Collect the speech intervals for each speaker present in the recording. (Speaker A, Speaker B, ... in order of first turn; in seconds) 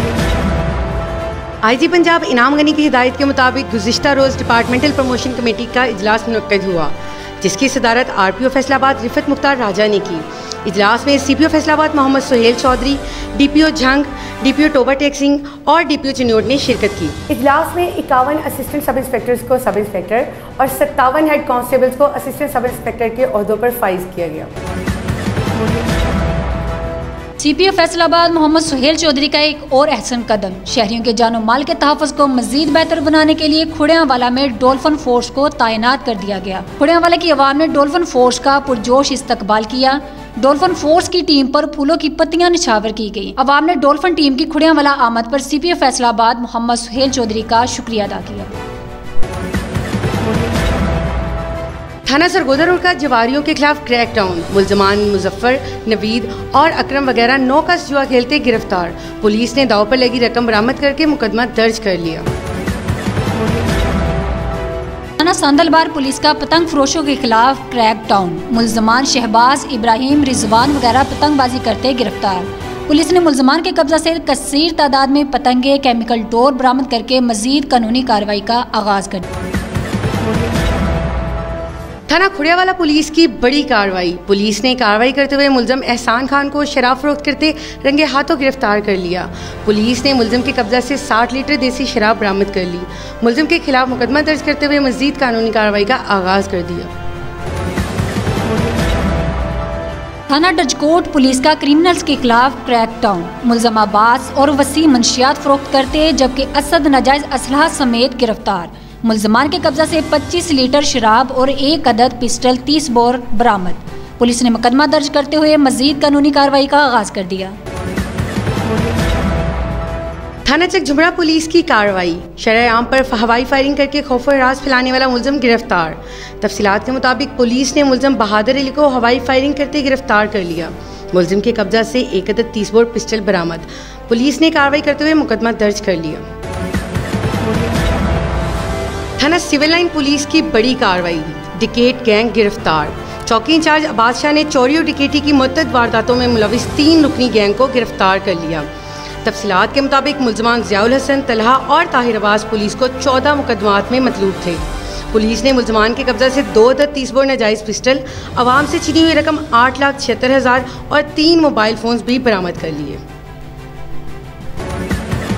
Speaker A: 1.6-24.5, 52.1-62.3, 82.1-96.9, 120.5-136.2, 139.2-148.7, 149.2-163.0
Speaker B: 27.4-48.5, 65.2-79.3, 100.3-117.6